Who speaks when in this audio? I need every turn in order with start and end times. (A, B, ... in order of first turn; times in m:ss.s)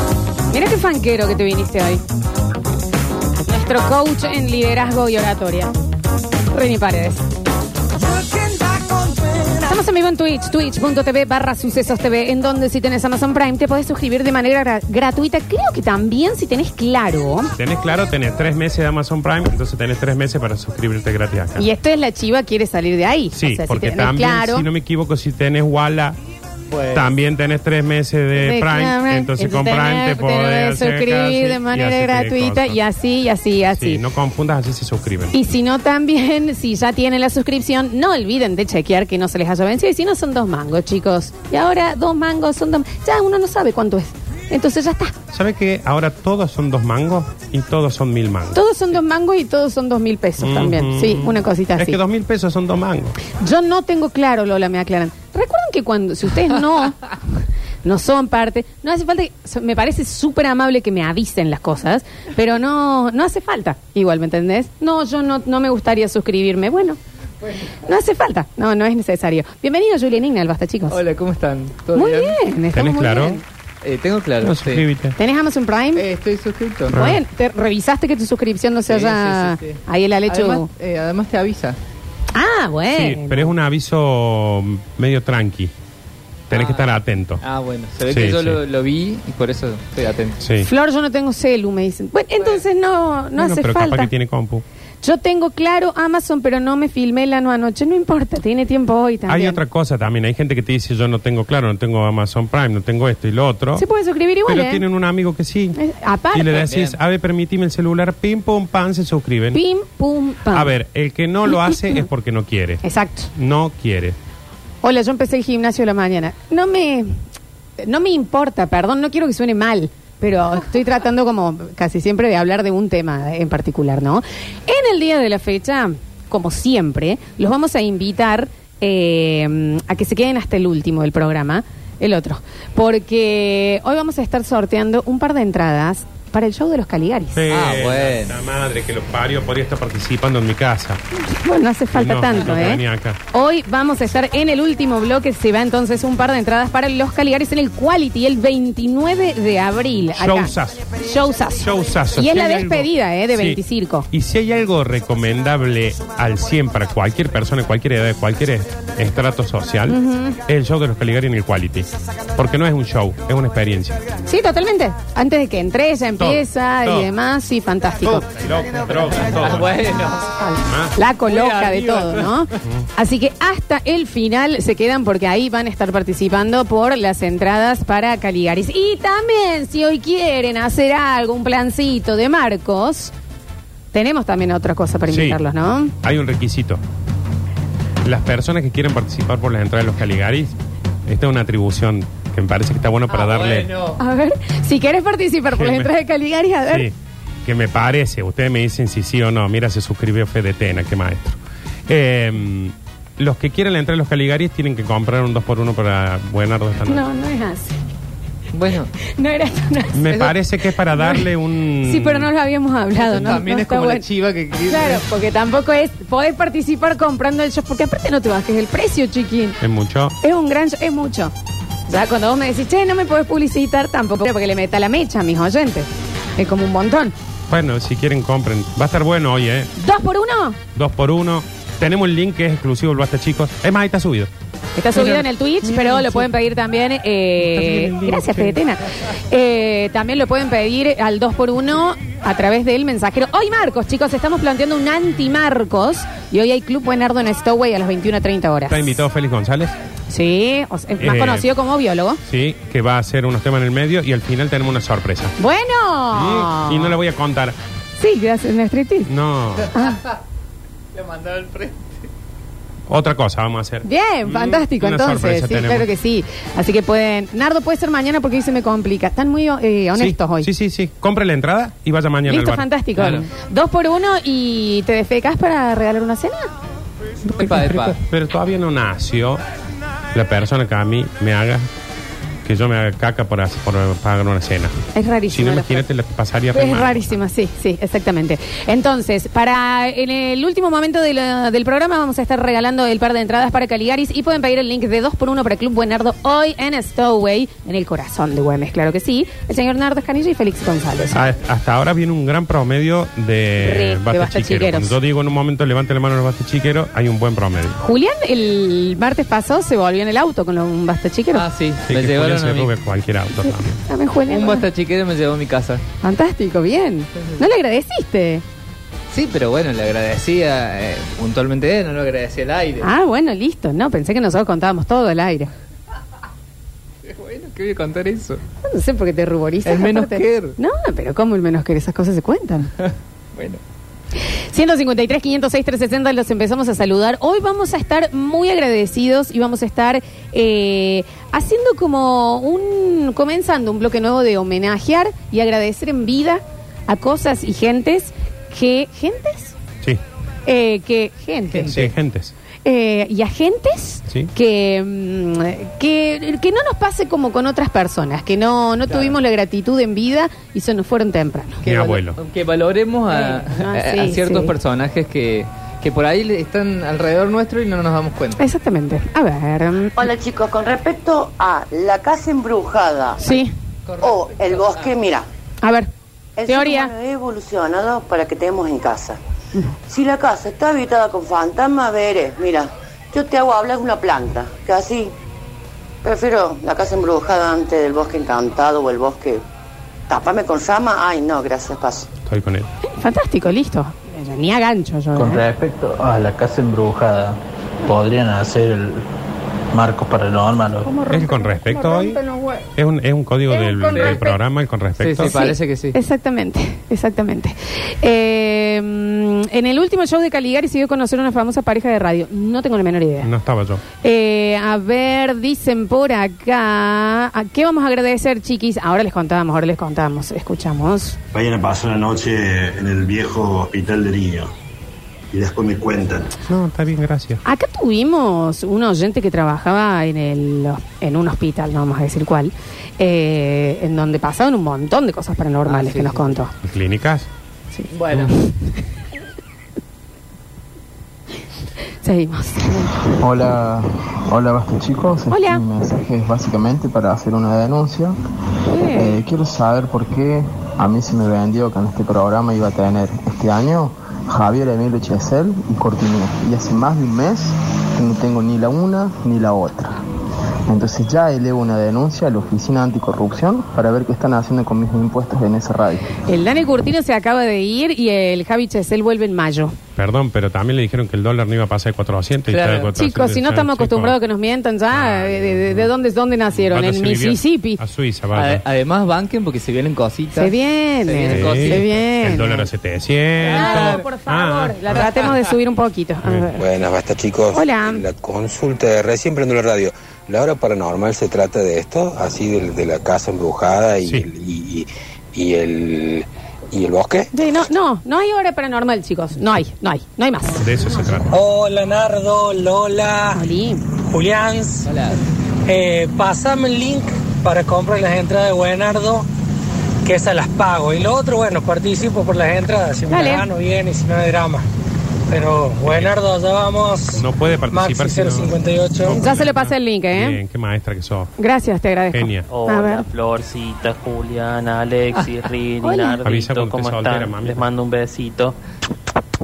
0:00.5-0:02.0 A
0:03.5-0:05.7 A
0:06.5-0:07.3 A
0:09.4-0:17.5 A
0:17.6-0:21.7 B
0:21.6-0:24.7 A
0:23.3-0:26.2 B
0:26.7-0:27.1 C
0:26.9-0:32.8 B
0:28.4-0:34.0 A
0:33.7-0:35.4 B
0:35.3-0:45.1 A
0:45.3-0:48.6 B
0:48.5-0:52.0 A
0:50.4-0:53.2 B
0:53.4-0:57.2 A
0:57.8-1:07.0 A
1:07.8-1:11.0 A
1:10.9-1:12.4 C
1:11.9-1:13.4 A
1:12.7-1:13.4 B
1:13.8-1:14.9 C
1:14.4-1:15.2 B
1:15.2-1:16.0 A
1:16.0-1:17.0 C
1:16.9-1:20.7 A
1:16.9-1:17.2 B
1:18.9-1:21.8 C
1:22.3-1:23.5 A
1:22.9-1:25.7 B
1:26.5-1:27.4 B
1:26.5-1:30.4 C
1:28.1-1:28.6 B
1:30.4-1:30.7 B
1:30.6-1:34.1 A
1:33.4-1:34.6 B
1:35.0-1:39.6 A
1:39.3-1:43.9 B
1:43.8-1:44.8 A
1:44.5-1:45.8 B
1:45.8-1:46.6 A
1:46.3-1:49.6 B
1:46.5-1:47.0 C
1:49.5-1:50.7 A
1:50.5-1:52.8 B
1:52.8-1:53.3 A
1:53.4-1:54.2 B
1:54.8-1:57.1 A
1:57.8-2:17.4 A
2:17.4-2:21.0 B
2:17.5-2:18.4 C
2:21.3-2:34.1 A
2:21.9-2:23.2 B
2:30.1-2:30.9 B
2:31.6-2:33.6 B
2:34.1-2:44.0 B
2:39.9-2:40.4 A
2:44.3-2:48.3 A
2:46.2-2:47.1 B
2:48.0-2:49.9 B
2:49.2-2:50.3 C
2:50.4-3:03.1 A
2:50.7-2:51.0 B
2:51.2-2:52.4 C
3:03.9-3:05.9 A
3:05.1-3:05.4 B
3:06.0-3:06.8 B
3:08.0-3:13.7 B
3:13.1-3:14.0 C
3:14.0-3:16.9 A
3:15.5-3:15.9 B
3:16.7-3:21.4 B
3:21.9-3:27.0 B
3:26.9-3:27.8 A
3:28.5-3:28.9 C
3:29.0-3:29.9 A
3:30.0-3:32.3 B
3:30.1-3:30.4 C
3:31.8-3:34.0 A
3:33.0-3:35.0 C
3:34.7-3:39.6 A
3:39.6-3:40.2 B
3:40.2-3:41.3 A
3:41.9-3:47.1 A
3:47.5-3:49.7 B
3:49.8-3:50.6 A
3:50.8-3:54.3 B
3:54.8-4:08.8 A
3:55.0-3:56.3 B
3:57.4-3:58.6 B
4:08.7-4:09.7 B
4:10.1-4:12.2 A
4:11.0-4:11.5 B
4:12.3-4:15.4 B
4:15.4-4:17.0 A
4:16.1-4:17.6 B
4:18.0-4:19.1 A
4:19.1-4:19.7 B
4:19.7-4:20.0 A
4:20.9-4:22.1 C
4:22.9-4:23.9 B
4:23.8-4:30.5 A
4:24.4-4:25.9 B
4:30.0-4:32.7 B
4:32.3-4:36.5 A
4:33.0-4:33.2 C
4:37.3-4:38.0 C
4:37.4-4:39.4 B
4:40.1-4:41.7 B
4:42.4-4:44.7 B
4:44.9-4:45.8 A
4:45.3-4:47.2 B
4:46.5-5:01.3 A
5:01.1-5:07.8 B
5:03.6-5:05.0 A
5:07.8-5:11.5 A
5:11.3-5:12.7 C
5:11.8-5:13.8 B
5:13.7-5:14.7 A
5:14.3-5:15.8 C
5:16.0-5:18.4 A
5:19.1-5:22.9 C
5:22.8-5:25.5 A
5:27.0-5:28.4 C
5:28.6-5:32.7 A
5:29.6-5:30.6 C
5:32.8-5:33.6 C
5:34.5-5:49.6 A
5:50.5-5:51.7 A
5:51.5-5:51.9 C
5:51.7-5:52.3 B
5:52.6-6:01.6 A
5:58.9-5:59.2 C
6:01.6-6:08.4 C
6:01.7-6:02.2 B
6:03.1-6:04.5 A
6:08.4-6:10.0 A
6:10.0-6:13.2 D
6:13.2-6:13.5 A
6:13.3-6:14.9 C
6:14.0-6:15.3 D
6:15.6-6:15.9 A
6:16.4-6:19.2 D
6:16.5-6:16.9 A
6:19.9-6:25.1 D
6:26.0-6:29.4 D
6:30.1-6:32.1 D
6:32.2-6:32.7 B
6:33.0-6:35.4 A
6:35.2-6:39.0 E
6:39.7-6:40.9 E
6:40.8-6:42.7 A
6:41.1-6:42.2 B
6:42.8-6:45.4 B
6:43.5-6:44.4 A
6:43.9-6:44.2 C
6:45.0-6:46.0 C
6:45.2-6:53.3 A
6:53.2-6:53.8 B
6:54.0-7:01.2 A
7:01.3-7:04.5 F
7:05.3-7:06.4 F
7:06.5-7:07.4 B
7:07.4-7:16.5 A
7:15.6-7:16.3 C
7:16.6-7:17.3 B
7:17.7-7:18.5 A
7:17.9-7:18.3 C
7:22.0-7:23.0 A
7:23.2-7:28.2 G
7:25.3-7:25.6 A
7:28.7-7:29.2 A
7:28.9-7:40.0 G
7:40.7-7:46.1 G
7:46.3-7:49.8 A
7:50.0-7:54.2 B
7:52.5-7:52.9 C
7:52.9-7:57.8 A
7:54.9-7:55.9 B
7:56.6-7:58.6 B
7:58.3-8:02.0 C
8:00.4-8:02.7 A
8:01.3-8:05.0 B
8:03.4-8:04.0 C
8:03.4-8:06.6 A
8:06.6-8:17.3 H
8:07.5-8:08.1 A
8:14.0-8:14.3 B
8:17.3-8:20.6 A
8:20.6-8:21.3 B
8:21.3-8:23.4 I
8:23.4-8:23.8 A
8:24.1-8:24.9 I
8:24.9-8:25.2 C
8:25.7-8:29.3 I
8:30.0-8:34.6 I
8:33.1-8:33.4 A
8:35.3-8:39.2 I
8:35.8-8:36.2 B
8:37.2-8:41.3 B
8:39.1-8:40.4 A
8:41.4-8:43.1 A
8:42.1-8:42.5 B
8:42.5-8:48.6 J
8:45.8-8:46.2 A
8:46.2-8:47.7 B